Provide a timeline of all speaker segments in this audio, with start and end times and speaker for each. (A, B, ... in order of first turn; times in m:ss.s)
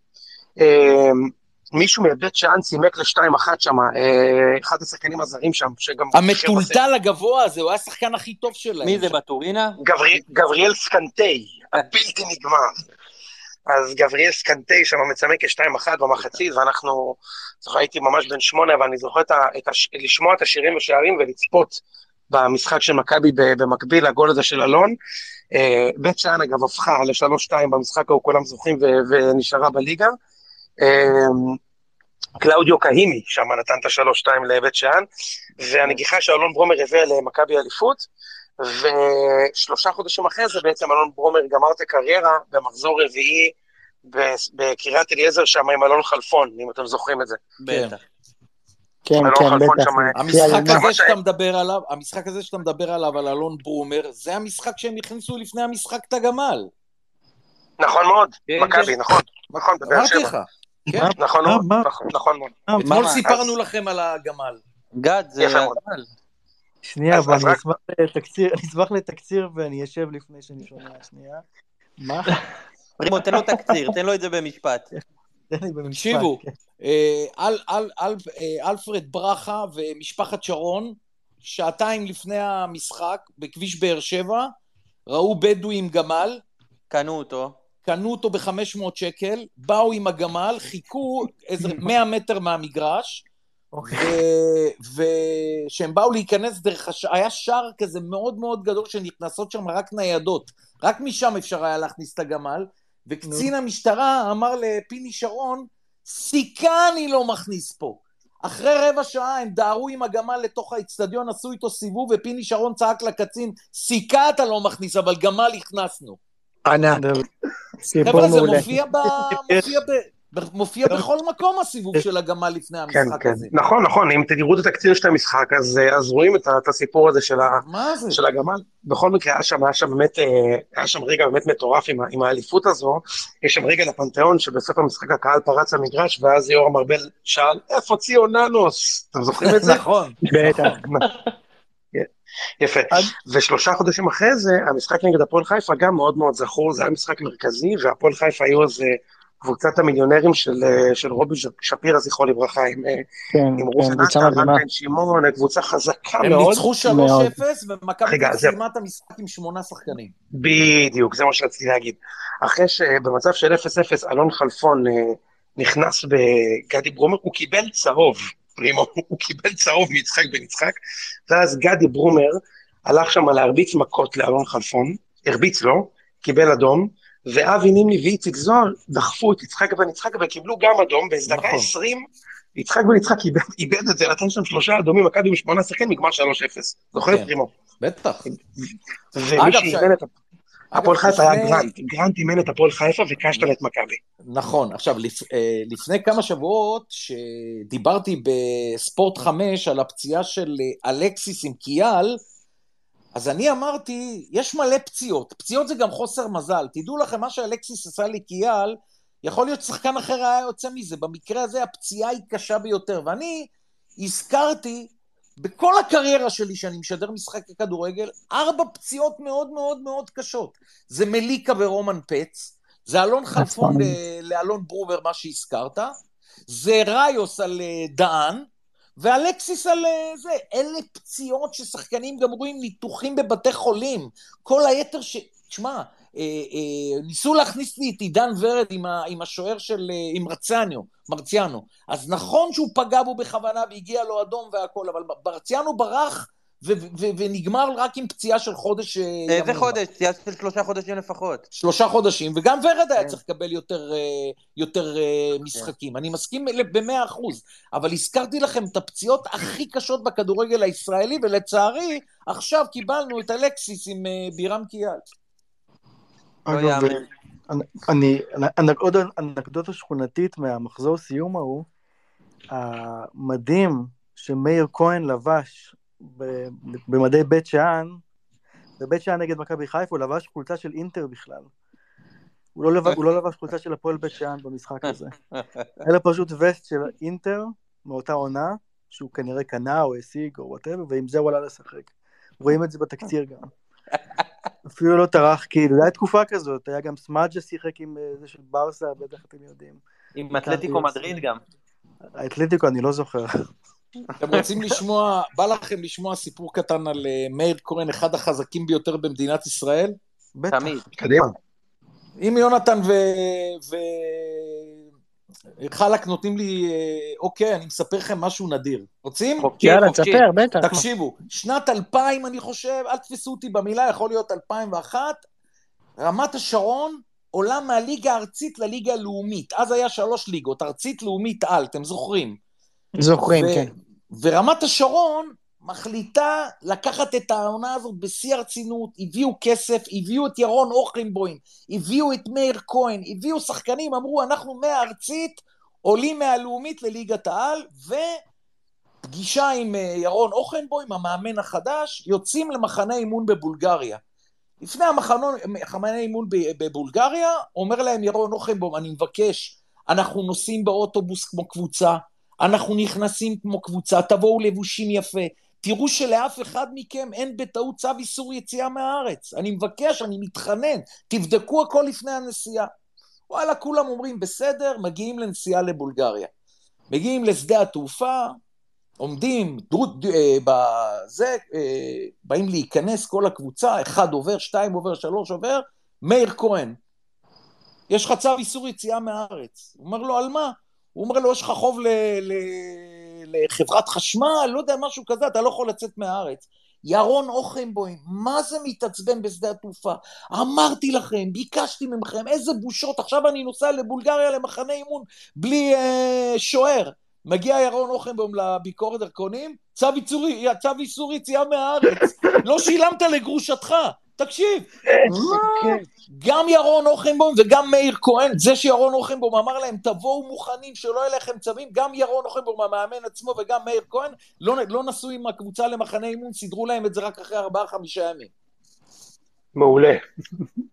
0:00.6-0:06.8 A
0:06.1-0:09.1 B
0:08.8-0:09.8 C
0:09.8-0:12.8 A
0:13.7-0:25.0 A
0:25.5-0:30.1 A
0:30.8-0:31.6 A
0:32.4-0:35.1 A
0:35.6-0:38.1 A
0:38.6-0:43.5 A
0:44.0-0:47.4 A
0:47.6-0:48.0 C
0:47.7-0:47.9 B
0:49.0-0:50.9 D
0:49.2-0:51.1 A
0:50.1-0:56.7 B
0:57.8-1:00.3 A
0:58.5-0:59.0 B
0:59.8-1:01.1 B
1:00.9-1:01.9 E
1:01.2-1:02.6 A
1:02.7-1:03.1 E
1:02.8-1:04.6 B
1:02.8-1:03.2 C
1:03.3-1:03.5 A
1:05.0-1:06.1 C
1:05.4-1:05.8 A
1:06.8-1:11.4 E
1:07.1-1:07.6 A
1:12.0-1:12.3 E
1:13.0-1:14.9 C
1:15.5-1:16.5 E
1:15.9-1:24.5 B
1:25.1-1:26.4 B
1:26.9-1:27.6 C
1:27.8-1:33.2 B
1:33.7-1:34.2 E
1:33.8-1:56.2 B
1:43.2-1:43.5 E
1:56.7-1:57.0 D
1:56.9-1:57.2 E
1:57.9-1:58.7 D
1:58.0-1:59.7 E
1:58.0-2:03.5 B
2:02.9-2:19.8 A
2:07.5-2:08.2 B
2:19.4-2:20.8 B
2:20.3-2:20.7 E
2:22.6-2:33.0 A
2:33.3-2:34.6 D
2:33.6-2:36.6 A
2:36.2-2:40.1 B
2:36.8-2:37.4 D
2:38.1-2:38.6 A
2:40.4-2:50.8 A
2:51.3-3:02.0 A
3:01.3-3:01.7 B
3:02.6-3:07.5 A
3:07.0-3:07.3 B
3:07.8-3:08.3 B
3:09.1-3:10.1 A
3:09.4-3:09.9 B
3:10.7-3:11.7 B
3:10.7-3:14.0 A
3:14.3-3:22.2 B
3:23.1-3:46.0 B
3:43.4-3:43.8 D
3:46.5-4:09.8 B
4:09.3-4:11.4 C
4:11.5-4:25.0 B
4:26.5-4:31.7 E
4:26.5-4:27.0 C
4:32.5-4:38.0 E
4:38.8-4:41.5 E
4:42.6-4:45.1 E
4:44.9-4:45.7 C
4:45.8-4:53.5 E
4:54.7-4:59.8 E
5:00.1-5:01.4 C
5:00.4-5:01.2 E
5:02.2-5:03.3 E
5:04.2-5:10.0 B
5:10.4-5:10.8 E
5:10.5-5:10.8 C
5:11.0-5:11.4 A
5:12.2-5:14.8 B
5:15.6-5:19.6 B
5:19.4-5:20.2 C
5:19.6-5:20.9 D
5:20.6-5:25.2 B
5:26.0-5:32.4 B
5:33.0-5:33.7 D
5:33.3-5:48.2 B
5:49.0-5:54.0 B
5:54.6-6:12.7 B
6:13.3-6:16.3 B
6:16.9-6:18.4 B
6:19.0-6:26.8 B
6:27.9-6:54.7 B
6:54.9-6:55.8 A
6:56.1-7:08.3 B
7:09.6-7:10.0 A